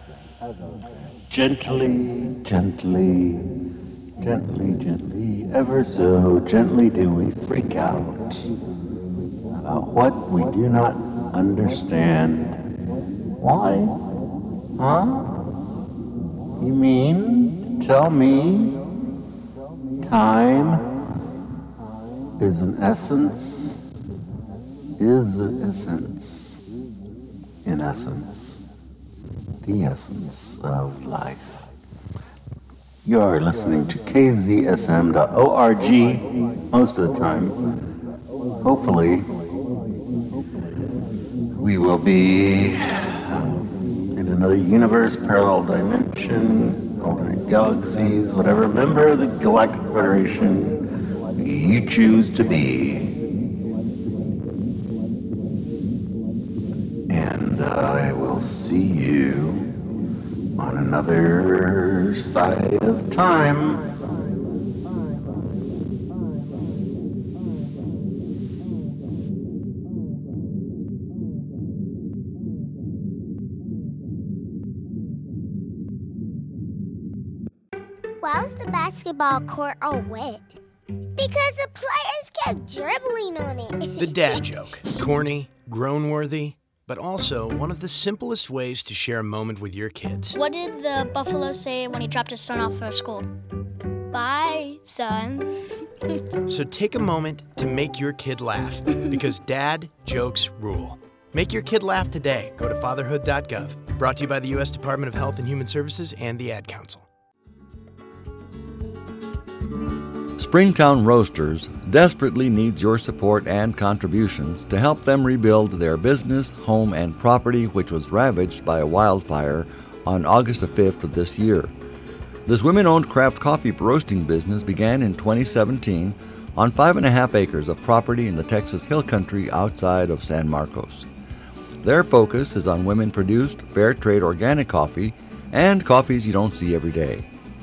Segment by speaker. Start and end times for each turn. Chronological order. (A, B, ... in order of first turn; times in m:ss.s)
0:01.3-0:03.5 A
0:04.2-0:08.5 A
0:09.6-0:12.6 A
0:13.4-0:14.0 A
0:14.8-0:15.5 A
0:16.6-0:18.8 A
0:20.0-0:20.9 A
0:22.4-0:23.8 A
0:25.0-0:26.6 A
0:27.6-0:28.6 A
0:29.6-0:31.6 A
0:33.0-0:37.6 A
0:38.6-0:39.3 A
0:41.6-0:43.5 A
0:44.1-0:50.8 A
0:51.4-0:53.1 A
0:57.1-0:59.7 A
1:00.6-1:03.8 A
1:18.2-1:20.6 B
1:21.2-1:24.5 B
1:24.0-1:30.4 C
1:30.3-1:33.3 D
1:34.1-1:36.2 D
1:36.5-1:47.1 C
1:50.4-2:01.7 E
2:02.5-2:11.1 E
2:11.8-2:17.3 E